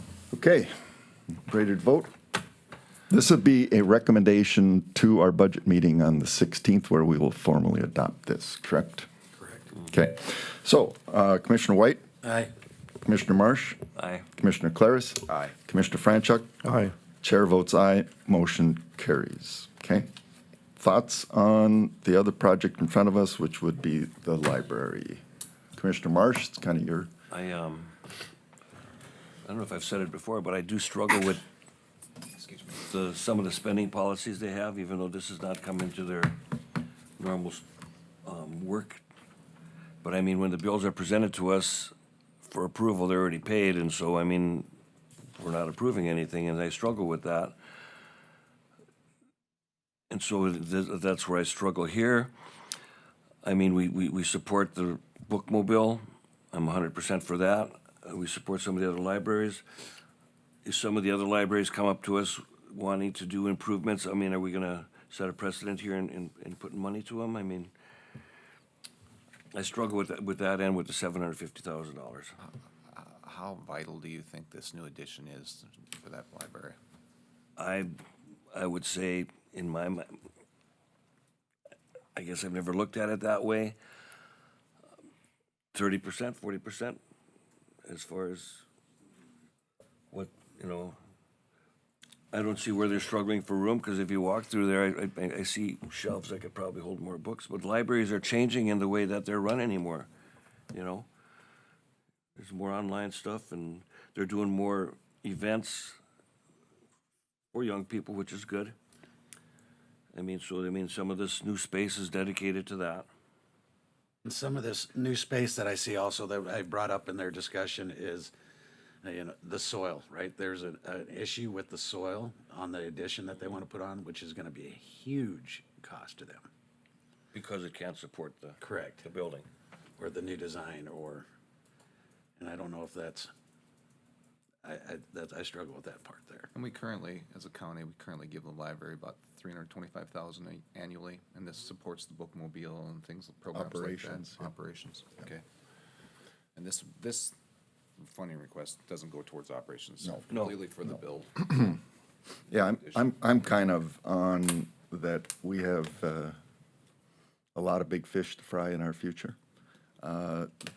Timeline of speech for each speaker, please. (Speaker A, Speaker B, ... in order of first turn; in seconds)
Speaker A: 0.3-0.7, 1.4-2.1, 3.1-9.1, 9.9-12.0, 13.0-13.8, 14.4-20.1, 20.8-25.2, 25.8-27.1, 143.5-144.5, 152.5-156.4, 157.6-159.4, 160.0-160.5
Speaker B: 9.4-9.7, 12.2-12.5, 114.2-118.3, 119.0-126.5, 128.6-129.0, 130.0-131.3, 132.4-133.3, 134.6-136.5
Speaker C: 14.0-14.3, 27.3-28.0, 29.4-31.4, 32.7-36.4, 37.2-37.6, 38.2-39.0, 40.0-41.9, 42.4-44.7, 45.3-47.5, 50.1-52.3, 53.4-59.6, 60.6-67.7, 69.5-72.3, 77.6-78.0, 78.5-80.2, 82.2-83.8, 85.7-87.0, 87.8-88.6, 90.1-91.0, 92.3-100.1, 100.7-101.1, 102.4-106.0, 107.5-108.8, 110.1-113.1, 127.3-129.5, 150.3-150.6
Speaker D: 32.4-32.7, 72.4-76.8, 136.5-145.4, 146.6-147.4, 148.0-151.8